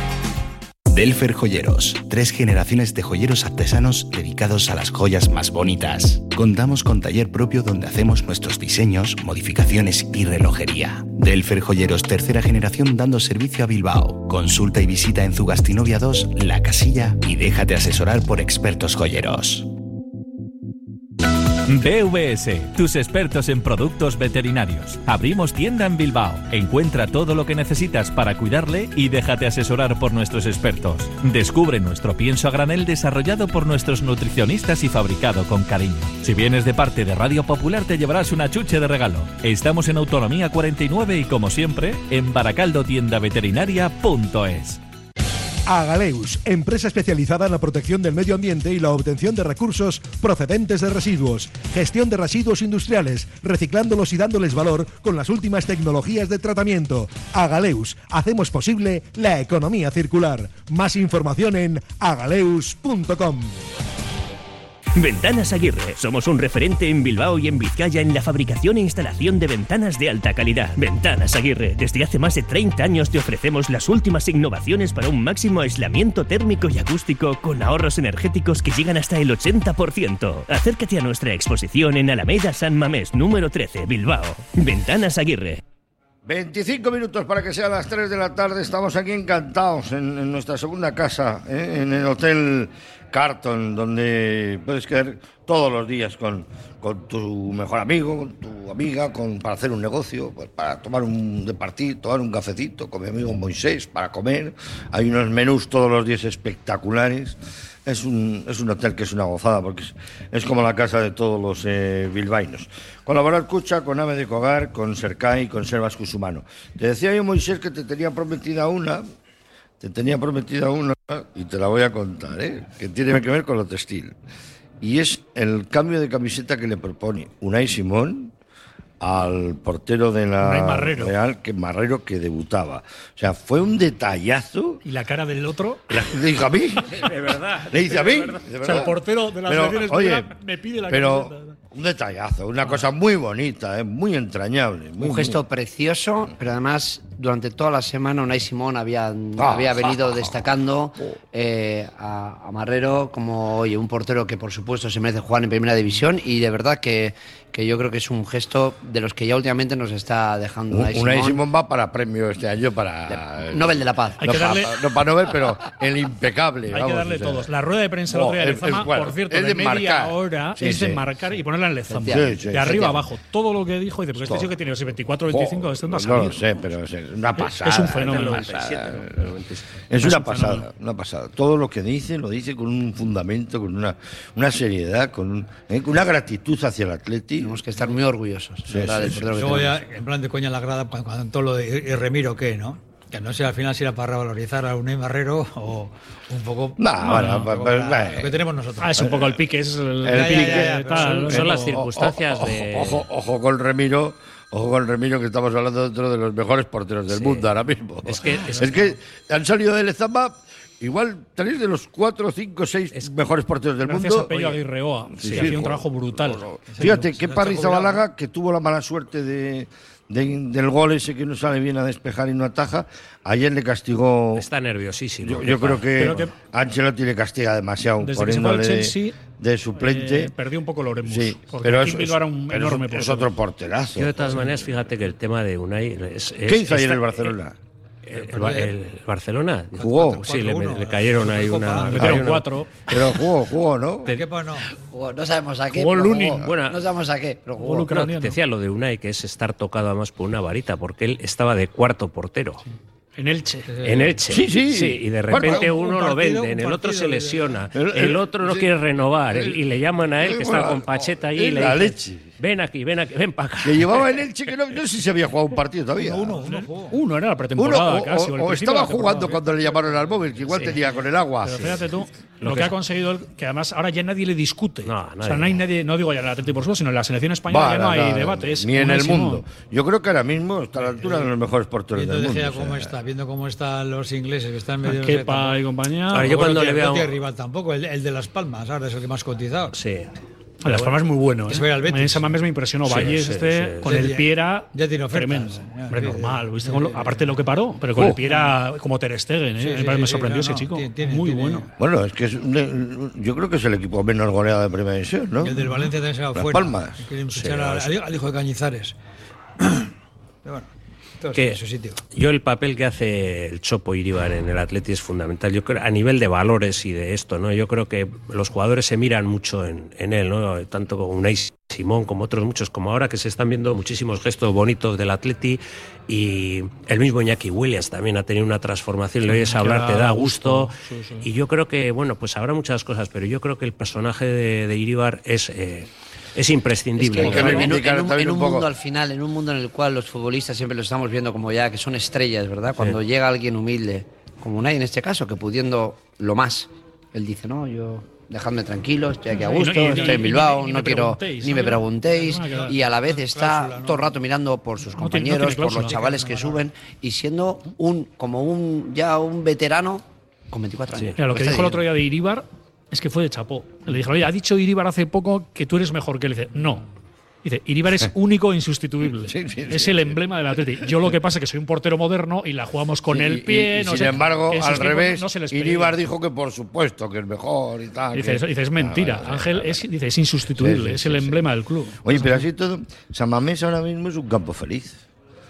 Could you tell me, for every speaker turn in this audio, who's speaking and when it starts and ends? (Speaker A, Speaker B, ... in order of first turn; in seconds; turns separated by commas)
Speaker A: 0.9-19.7, Speaker B: 21.7-44.8, Speaker C: 45.7-63.5, Speaker D: 65.0-85.6, Speaker E: 86.2-119.0, Speaker E: 119.8-124.1, Speaker E: 124.8-128.3, Speaker E: 129.0-134.8, Speaker F: 130.4-131.1, Speaker F: 134.8-135.9, Speaker E: 135.9-140.3, Speaker G: 137.0-138.4, Speaker F: 138.6-141.6, Speaker E: 140.9-145.4, Speaker H: 145.0-161.4, Speaker E: 149.4-150.4, Speaker E: 160.7-167.5, Speaker H: 163.1-164.4, Speaker F: 164.2-164.8, Speaker F: 166.7-176.4, Speaker E: 168.1-171.0, Speaker H: 171.9-173.0, Speaker E: 172.1-172.9, Speaker E: 174.2-174.5, Speaker E: 175.3-179.3, Speaker F: 177.4-178.5, Speaker G: 177.9-179.6, Speaker E: 179.9-187.6, Speaker F: 180.0-180.7, Speaker H: 187.4-189.8, Speaker E: 188.7-189.5, Speaker I: 189.3-199.0, Speaker E: 196.8-198.4, Speaker F: 197.0-197.5, Speaker F: 198.8-201.8, Speaker E: 199.0-199.4, Speaker E: 200.0-200.9, Speaker I: 200.0-201.4, Speaker G: 201.1-203.1, Speaker E: 201.4-214.6, Speaker G: 207.1-207.5, Speaker G: 208.1-208.8, Speaker F: 208.2-208.8, Speaker F: 213.8-217.0, Speaker E: 215.1-224.5, Speaker G: 215.2-215.6, Speaker I: 216.7-218.0, Speaker G: 224.3-226.2, Speaker E: 225.2-230.3, Speaker F: 225.9-226.3, Speaker F: 228.0-229.2, Speaker F: 229.8-233.3, Speaker E: 231.0-234.4, Speaker G: 233.9-237.3, Speaker E: 236.4-237.6, Speaker G: 238.1-242.5, Speaker I: 238.1-238.7, Speaker I: 239.8-242.2, Speaker E: 239.8-240.2, Speaker F: 241.9-242.7, Speaker E: 242.9-244.2, Speaker I: 244.1-244.7, Speaker H: 244.8-247.9, Speaker F: 245.7-246.4, Speaker G: 246.4-246.8, Speaker F: 247.6-248.4, Speaker G: 247.9-252.6, Speaker F: 253.2-253.7, Speaker I: 253.7-254.2, Speaker G: 253.8-264.2, Speaker E: 254.3-255.8, Speaker I: 255.3-257.6, Speaker E: 257.7-258.7, Speaker E: 259.3-259.6, Speaker E: 260.2-262.3, Speaker E: 263.6-266.4, Speaker I: 265.9-267.0, Speaker F: 266.5-269.4, Speaker E: 267.6-271.8, Speaker G: 270.5-270.8, Speaker F: 271.4-279.4, Speaker G: 272.4-272.7, Speaker G: 274.8-275.6, Speaker E: 277.5-282.9, Speaker I: 281.0-281.3, Speaker I: 281.9-289.8, Speaker F: 284.8-286.3, Speaker G: 286.1-287.1, Speaker G: 289.7-290.1, Speaker F: 290.6-301.6, Speaker G: 290.6-290.9, Speaker I: 291.4-292.4, Speaker G: 292.8-293.9, Speaker I: 293.8-297.2, Speaker I: 299.6-301.7, Speaker E: 301.8-305.8, Speaker I: 305.4-308.9, Speaker E: 306.3-307.1, Speaker G: 307.3-307.9, Speaker I: 309.6-309.9, Speaker I: 310.4-310.7, Speaker I: 311.2-312.0, Speaker G: 311.3-311.6, Speaker G: 312.1-337.8, Speaker F: 329.3-331.2, Speaker H: 337.0-361.8, Speaker E: 337.2-338.7, Speaker F: 349.3-352.7, Speaker I: 352.1-354.1, Speaker F: 355.0-356.0, Speaker I: 355.9-356.6, Speaker F: 361.2-366.9, Speaker F: 367.4-376.0, Speaker E: 369.2-370.2, Speaker E: 373.1-379.8, Speaker F: 378.1-382.4, Speaker E: 380.6-381.5, Speaker E: 382.0-385.0